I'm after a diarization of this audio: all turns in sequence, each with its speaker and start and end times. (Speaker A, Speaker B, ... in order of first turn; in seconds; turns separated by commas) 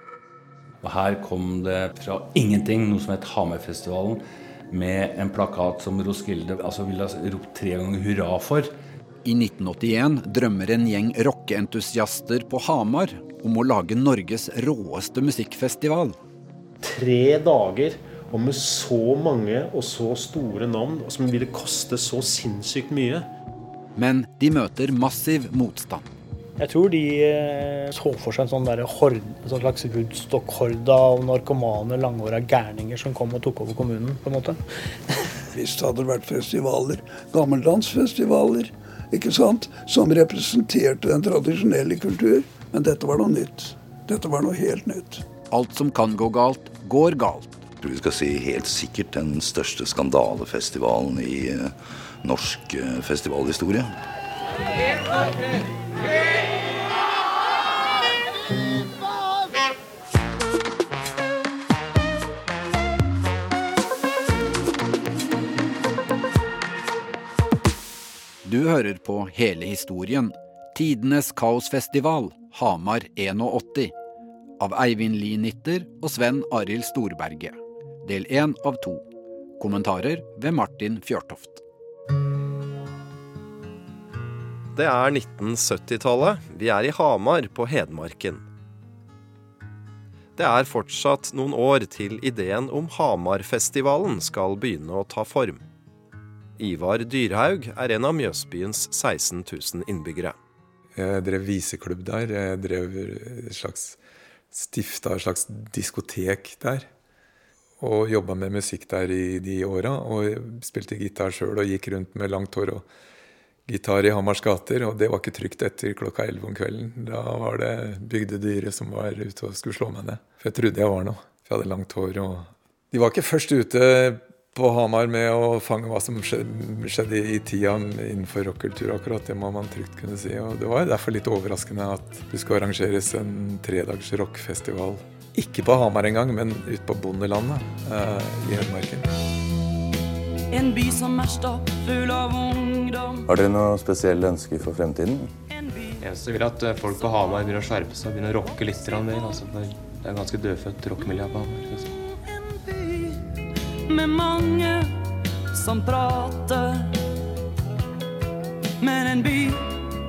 Speaker A: 0.8-8.7, Speaker B: 9.2-16.2, Speaker C: 17.0-19.1, Speaker C: 19.7-20.2, Speaker C: 20.9-23.2, Speaker B: 23.9-26.0, Speaker D: 26.6-35.2, Speaker E: 35.5-45.2, Speaker B: 45.5-47.6, Speaker F: 47.8-53.9, Speaker B: 68.4-73.9, Speaker B: 74.6-79.0, Speaker B: 79.6-81.6, Speaker G: 84.8-88.4, Speaker G: 90.4-95.6, Speaker G: 96.6-100.3, Speaker H: 100.9-104.0, Speaker H: 104.5-106.9, Speaker H: 107.8-112.8, Speaker H: 113.7-139.0, Speaker I: 140.5-143.3, Speaker J: 143.3-145.3, Speaker I: 145.5-146.0, Speaker K: 146.0-151.9, Speaker I: 153.9-154.9, Speaker I: 155.5-156.9, Speaker I: 158.8-159.7